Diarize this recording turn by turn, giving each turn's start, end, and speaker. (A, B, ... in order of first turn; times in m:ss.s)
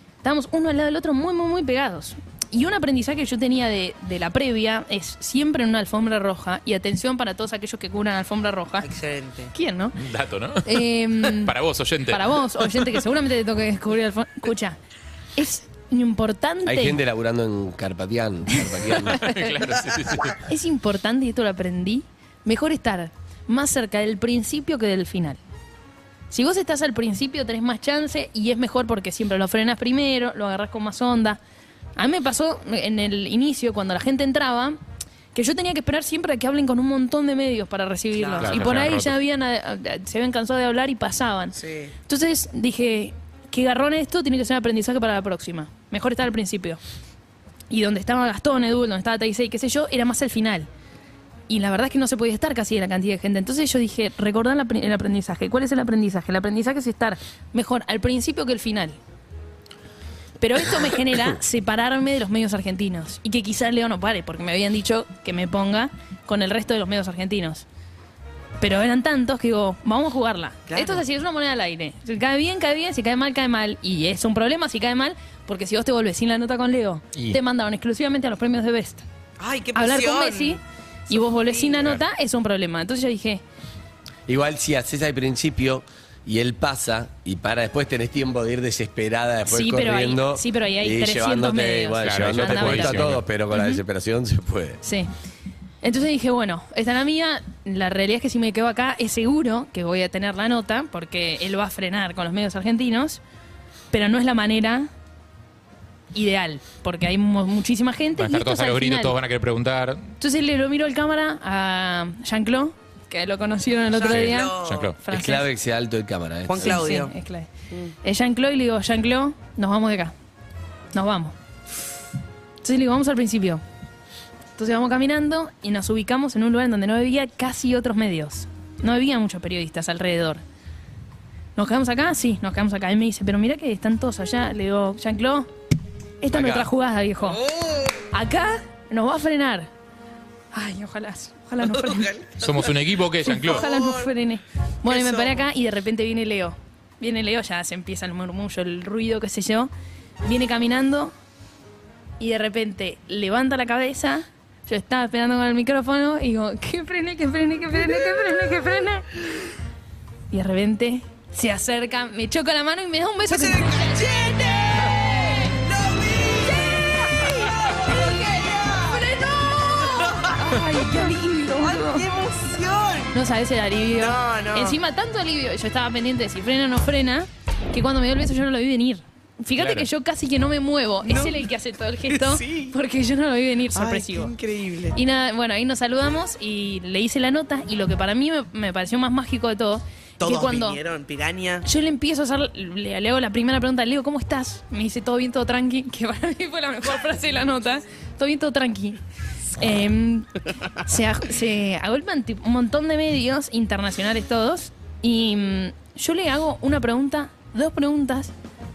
0:00.2-0:08.9 A
0:08.8-0:09.5 B
0:09.5-0:10.0 A
0:10.0-0:12.4 C
0:10.6-0:11.6 A
0:12.1-0:14.8 A
0:15.4-0:17.0 A
0:16.6-0:19.3 D
0:18.5-0:19.6 A
0:19.0-0:20.4 C
0:20.4-0:25.4 A
0:26.3-0:31.4 A
0:32.0-0:34.8 A
0:35.3-0:41.6 A
0:38.1-0:38.6 B
0:38.4-0:39.2 C
0:41.6-0:41.9 B
0:42.1-0:46.8 A
0:47.7-0:50.7 A
0:51.5-0:59.0 A
1:00.4-1:07.7 A
1:08.6-1:19.0 A
1:10.7-1:11.0 B
1:17.1-1:17.4 C
1:19.4-1:20.6 B
1:19.8-1:23.4 A
1:21.1-1:22.0 B
1:24.3-1:34.8 D
1:29.5-1:33.8 A
1:32.0-1:33.2 C
1:34.8-1:35.1 A
1:35.8-1:43.2 A
1:43.9-1:44.9 A
1:46.1-1:49.2 A
1:48.2-1:50.1 C
1:50.2-1:55.5 A
1:53.9-1:54.9 B
1:54.1-1:55.0 C
1:55.1-1:56.8 D
1:56.5-1:57.1 B
1:56.6-1:57.5 A
1:58.0-2:00.1 A
2:00.9-2:01.4 A
2:02.6-2:03.6 A
2:04.6-2:10.4 A
2:11.6-2:15.5 A
2:16.2-2:17.4 A
2:16.3-2:16.7 D
2:17.2-2:18.1 B
2:18.1-2:19.7 A
2:20.5-2:22.1 A
2:21.7-2:22.7 B
2:22.4-2:23.7 C
2:23.3-2:24.1 B
2:23.3-2:29.7 A
2:24.9-2:25.4 B
2:30.2-2:31.1 A
2:32.2-2:39.1 A
2:37.8-2:38.4 B
2:40.3-2:44.5 A
2:43.3-2:49.2 B
2:45.1-2:45.6 A
2:46.5-2:52.1 A
2:49.8-2:53.1 B
2:53.1-3:04.3 A
2:53.9-2:54.8 B
2:59.6-2:59.9 C
3:01.0-3:01.4 B
3:02.1-3:02.7 B
3:03.8-3:05.0 B
3:04.9-3:10.8 A
3:10.2-3:11.6 B
3:11.6-3:19.0 A
3:19.6-3:28.3 A